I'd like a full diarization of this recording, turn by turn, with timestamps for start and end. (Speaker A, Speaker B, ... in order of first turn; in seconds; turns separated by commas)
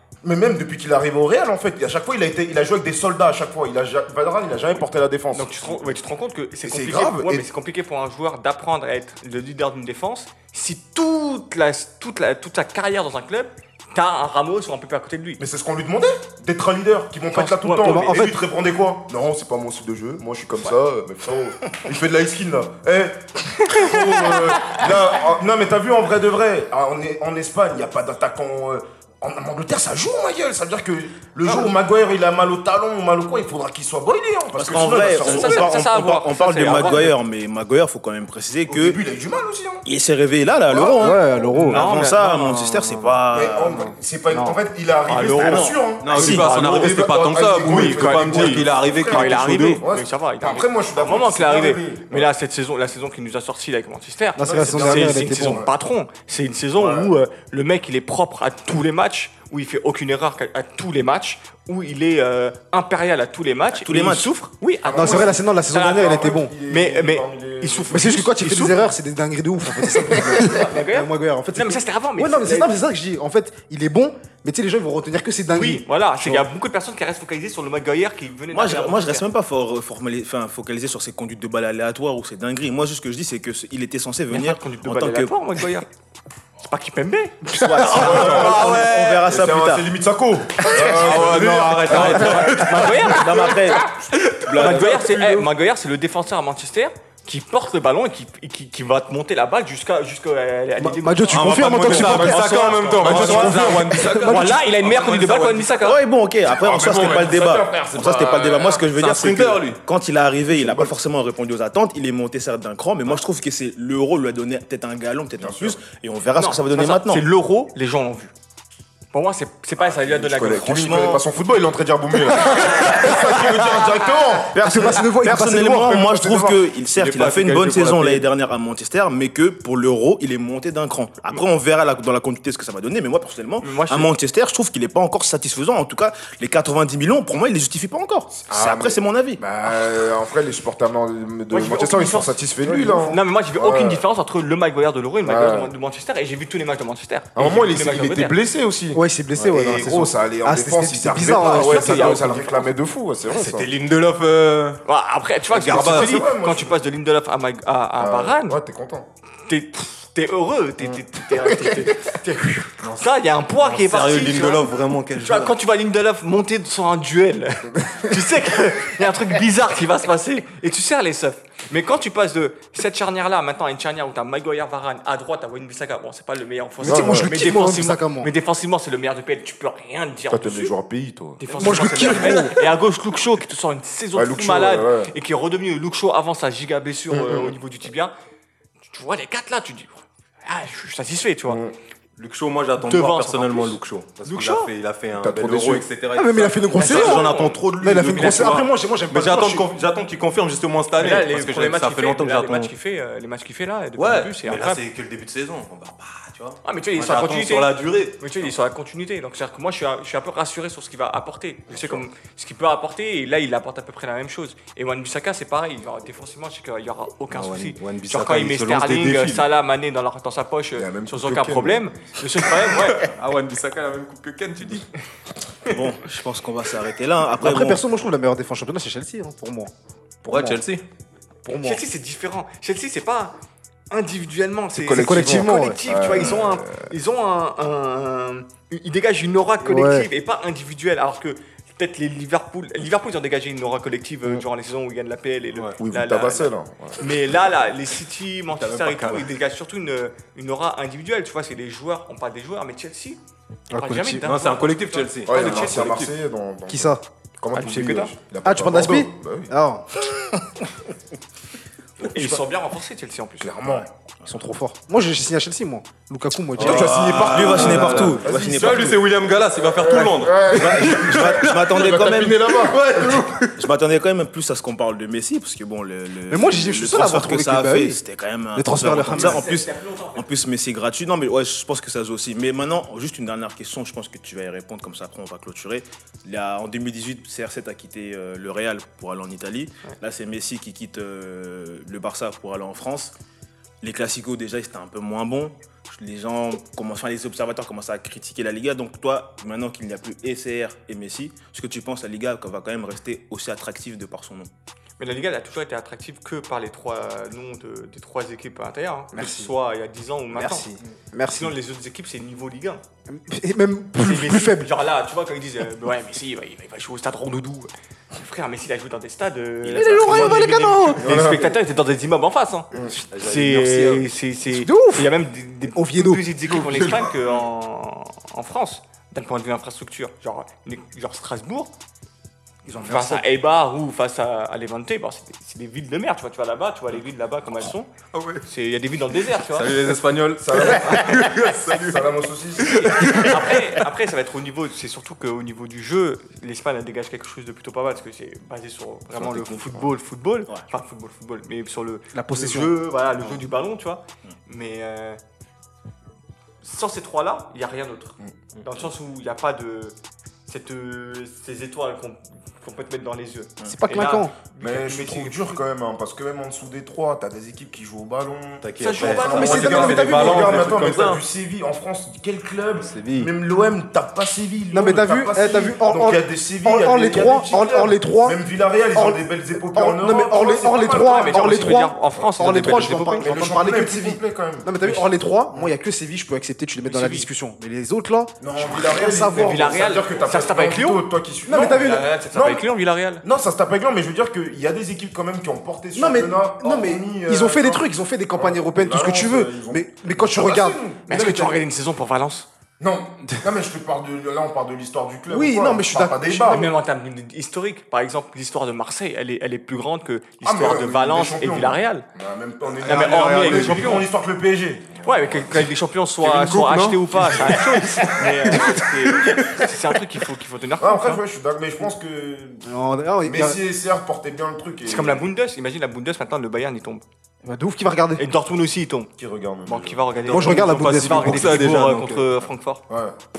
Speaker A: 0.2-6.0, Speaker B: 5.3-15.4, Speaker A: 6.6-7.5, Speaker A: 15.4-35.7, Speaker B: 17.3-18.4, Speaker C: 17.8-18.3, Speaker B: 23.7-24.4, Speaker D: 34.5-39.0, Speaker B: 35.0-37.1, Speaker A: 38.7-39.8, Speaker D: 39.8-43.9, Speaker A: 40.7-41.5, Speaker C: 40.9-41.8, Speaker B: 41.6-43.0, Speaker A: 43.3-52.3, Speaker B: 44.3-47.0, Speaker D: 45.4-46.5, Speaker E: 46.0-49.8, Speaker B: 47.6-68.9, Speaker C: 54.4-55.7, Speaker A: 54.4-55.7, Speaker A: 56.8-57.1, Speaker D: 63.7-64.3, Speaker A: 64.8-68.3, Speaker C: 64.9-66.5, Speaker C: 67.9-76.4, Speaker A: 69.9-70.6, Speaker B: 70.5-72.7, Speaker B: 75.5-79.2, Speaker D: 78.5-85.6, Speaker B: 84.3-85.9, Speaker B: 86.6-88.9, Speaker D: 87.5-89.9, Speaker A: 87.9-92.6, Speaker E: 87.9-89.3, Speaker E: 90.7-93.5, Speaker B: 91.9-93.6, Speaker D: 93.1-95.4, Speaker E: 94.1-94.7, Speaker B: 94.5-106.0, Speaker C: 100.8-104.5, Speaker E: 101.3-105.7, Speaker A: 103.0-104.0, Speaker D: 105.7-117.2, Speaker A: 106.5-108.8, Speaker E: 108.9-109.8, Speaker A: 110.5-110.9, Speaker A: 115.4-115.8, Speaker B: 116.4-118.3, Speaker B: 119.1-121.2, Speaker A: 119.8-125.0, Speaker D: 120.4-121.2, Speaker B: 122.8-123.1, Speaker D: 124.5-139.4, Speaker C: 124.6-126.0, Speaker A: 125.7-126.6, Speaker E: 127.0-128.3, Speaker B: 133.6-134.1, Speaker A: 138.4-144.0, Speaker B: 141.5-148.4, Speaker C: 142.7-143.1, Speaker A: 145.2-145.7, Speaker A: 147.3-153.7, Speaker C: 148.9-152.5, Speaker B: 151.3-152.7, Speaker E: 153.3-154.8, Speaker B: 154.8-158.6, Speaker E: 155.5-156.2, Speaker A: 155.6-156.8, Speaker A: 158.0-159.1, Speaker B: 159.4-180.7, Speaker A: 160.8-161.8, Speaker E: 163.6-165.5, Speaker C: 176.8-178.3, Speaker A: 176.8-177.3, Speaker A: 180.3-181.4, Speaker B: 181.4-188.1, Speaker C: 181.5-182.6, Speaker A: 184.1-185.1, Speaker A: 187.1-187.6, Speaker B: 188.8-191.6, Speaker A: 191.5-191.8, Speaker E: 192.2-202.7, Speaker B: 192.8-194.7, Speaker A: 195.1-195.9, Speaker C: 196.1-199.7, Speaker B: 196.7-197.6, Speaker B: 200.9-204.8, Speaker E: 203.9-208.2, Speaker B: 206.6-223.1, Speaker A: 211.7-212.0, Speaker E: 217.3-219.5, Speaker A: 220.8-222.2, Speaker E: 222.9-224.9, Speaker D: 225.7-227.8, Speaker C: 227.4-229.7, Speaker C: 230.2-230.6, Speaker E: 230.3-230.8, Speaker C: 231.4-231.8, Speaker B: 231.6-233.3, Speaker B: 233.9-253.2, Speaker C: 234.8-235.8, Speaker A: 234.8-236.9, Speaker C: 239.6-240.1, Speaker A: 245.8-247.1, Speaker E: 248.5-249.3, Speaker C: 253.7-254.2, Speaker B: 253.7-256.0, Speaker E: 254.2-256.1, Speaker A: 255.2-259.5, Speaker C: 256.7-257.0, Speaker B: 257.5-258.1, Speaker C: 258.4-259.9, Speaker B: 262.0-263.8, Speaker A: 263.4-263.9, Speaker C: 264.2-268.2, Speaker A: 266.6-269.0, Speaker E: 266.6-273.7, Speaker D: 266.6-269.0, Speaker A: 269.7-273.3, Speaker D: 270.4-272.7, Speaker D: 273.6-293.1, Speaker C: 276.3-278.0, Speaker C: 278.5-279.4, Speaker B: 279.1-280.3, Speaker D: 293.8-304.5, Speaker B: 305.0-310.7, Speaker C: 309.1-309.5, Speaker C: 310.3-311.5, Speaker B: 311.3-312.8, Speaker C: 313.1-314.7, Speaker B: 314.0-331.7, Speaker D: 319.6-320.4, Speaker C: 319.7-321.3, Speaker A: 321.0-321.5, Speaker E: 323.1-324.1, Speaker C: 324.5-325.1, Speaker C: 325.7-326.3, Speaker E: 326.7-327.1, Speaker C: 332.6-333.2, Speaker B: 332.8-337.9, Speaker E: 338.1-338.4, Speaker B: 338.4-339.8, Speaker E: 339.5-343.9, Speaker A: 340.4-343.2, Speaker B: 342.6-355.2, Speaker A: 349.1-349.9, Speaker C: 352.1-352.7, Speaker B: 356.6-359.9, Speaker B: 360.5-365.6, Speaker C: 363.6-364.3, Speaker A: 364.6-381.8, Speaker E: 368.6-371.2, Speaker B: 368.8-370.6, Speaker C: 369.2-370.7, Speaker E: 372.8-373.3, Speaker C: 374.7-378.4, Speaker C: 378.9-379.2, Speaker C: 379.7-390.0, Speaker B: 381.0-383.3, Speaker E: 382.6-382.9, Speaker A: 383.2-384.9, Speaker B: 386.8-387.3, Speaker A: 388.4-392.6, Speaker B: 389.4-391.0, Speaker C: 391.5-392.1, Speaker B: 391.6-393.2, Speaker A: 393.2-401.1, Speaker C: 395.9-401.6, Speaker B: 401.1-402.5, Speaker A: 402.8-406.7, Speaker C: 405.3-406.6, Speaker B: 406.5-412.1, Speaker A: 410.4-415.7, Speaker B: 412.8-414.1, Speaker C: 412.8-413.9, Speaker B: 415.0-421.2, Speaker E: 416.2-418.2, Speaker C: 418.5-418.9, Speaker A: 420.8-422.7, Speaker C: 422.6-423.6, Speaker A: 423.2-425.2, Speaker B: 424.9-427.0, Speaker C: 427.4-428.2, Speaker B: 428.2-429.1, Speaker A: 429.2-430.3, Speaker B: 429.6-432.8, Speaker E: 430.2-432.4, Speaker C: 430.3-431.7, Speaker A: 432.9-433.1